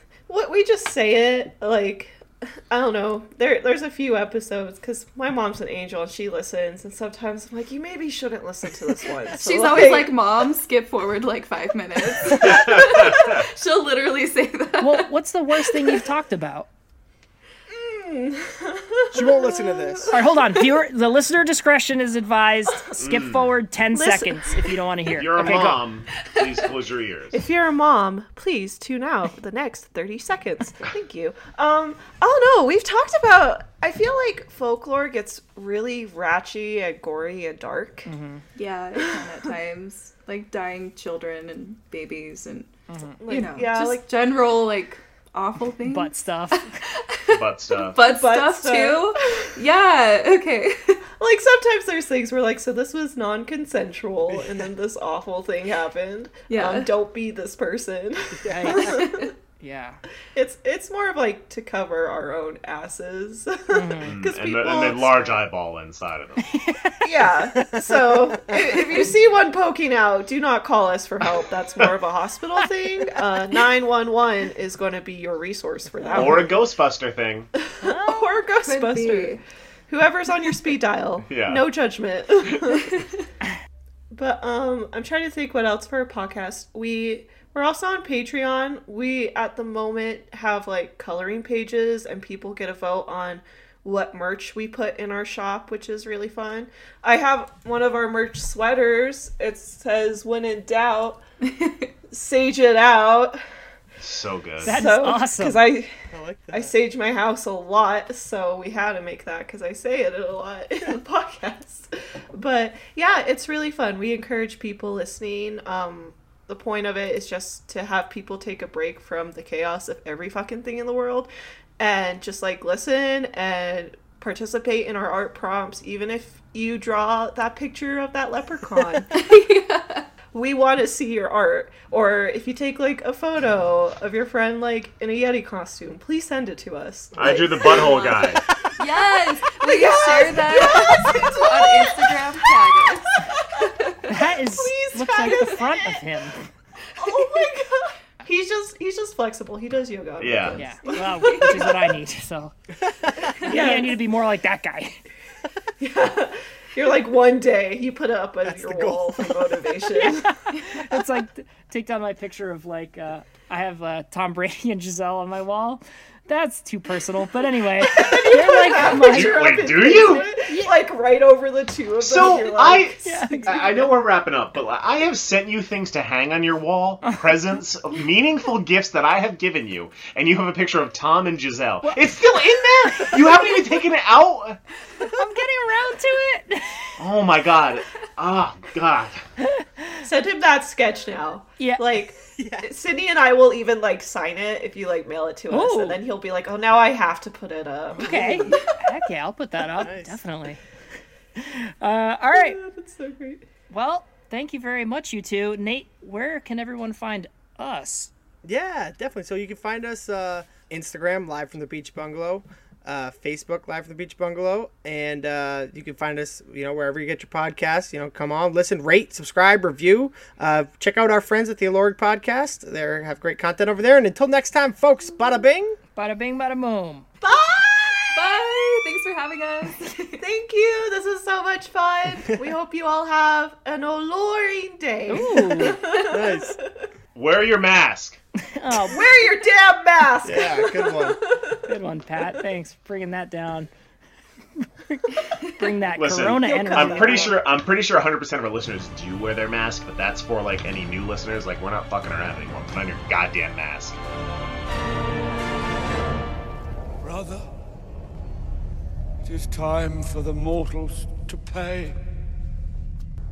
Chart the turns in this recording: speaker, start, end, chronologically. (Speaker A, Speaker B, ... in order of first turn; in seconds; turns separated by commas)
Speaker A: 0.3-10.2, Speaker B: 9.4-16.0, Speaker C: 12.3-13.4, Speaker D: 14.8-16.7, Speaker A: 17.7-20.2, Speaker E: 19.1-20.1, Speaker D: 20.1-25.8, Speaker C: 23.0-23.5, Speaker A: 23.9-24.4, Speaker C: 25.1-27.4, Speaker B: 26.2-26.5, Speaker A: 27.3-38.1, Speaker D: 38.0-38.4, Speaker B: 38.5-42.7, Speaker D: 42.9-43.2, Speaker A: 43.2-44.0, Speaker B: 43.2-51.0, Speaker D: 45.8-46.7, Speaker C: 47.3-48.0, Speaker A: 48.0-49.5, Speaker A: 51.2-59.3, Speaker E: 54.3-54.7, Speaker B: 56.5-56.9, Speaker E: 58.4-58.8, Speaker D: 58.5-58.9, Speaker B: 58.8-59.3, Speaker D: 59.6-60.0, Speaker A: 60.3-65.4, Speaker D: 63.7-64.1, Speaker C: 64.0-66.5, Speaker D: 66.5-67.0, Speaker A: 67.0-76.6, Speaker E: 67.5-68.8, Speaker C: 76.1-77.5, Speaker A: 77.6-82.9, Speaker D: 77.8-78.4, Speaker B: 78.6-79.4, Speaker C: 81.3-81.7, Speaker B: 82.7-83.2, Speaker A: 84.1-101.2, Speaker B: 101.5-101.9, Speaker A: 102.1-103.4, Speaker C: 104.0-104.8, Speaker D: 104.6-105.6, Speaker A: 104.6-105.9, Speaker E: 106.1-106.7, Speaker A: 106.5-129.3, Speaker B: 129.1-130.1, Speaker A: 130.3-138.4, Speaker C: 137.2-138.4, Speaker B: 137.7-144.0, Speaker A: 139.6-146.0, Speaker D: 144.1-146.4, Speaker A: 147.0-151.9, Speaker B: 147.0-147.3, Speaker C: 150.2-150.6, Speaker D: 150.5-152.5, Speaker B: 151.2-151.5, Speaker A: 153.3-154.0, Speaker D: 153.4-155.0, Speaker A: 155.8-160.4, Speaker E: 158.4-159.7, Speaker D: 160.0-169.5, Speaker A: 167.7-173.4, Speaker C: 168.8-170.3, Speaker D: 170.0-170.7, Speaker C: 172.0-184.6, Speaker D: 173.0-173.8, Speaker D: 181.8-183.4, Speaker D: 185.1-186.9, Speaker C: 187.0-189.2, Speaker A: 190.0-198.7, Speaker E: 192.3-192.7, Speaker D: 195.5-196.0, Speaker D: 198.0-200.6, Speaker E: 199.8-200.2, Speaker D: 201.4-202.6, Speaker A: 202.3-203.4, Speaker D: 203.7-208.1, Speaker E: 208.4-225.8, Speaker D: 225.9-227.1, Speaker A: 227.2-228.3, Speaker B: 228.1-230.2, Speaker A: 230.2-236.8, Speaker D: 235.1-235.8, Speaker E: 235.9-236.6, Speaker C: 237.1-238.2, Speaker D: 238.5-239.1, Speaker A: 238.8-241.6, Speaker E: 240.2-241.2, Speaker D: 241.7-243.7, Speaker D: 244.6-247.4, Speaker C: 246.0-254.0, Speaker A: 246.3-247.4, Speaker F: 257.0-257.4, Speaker F: 259.2-262.0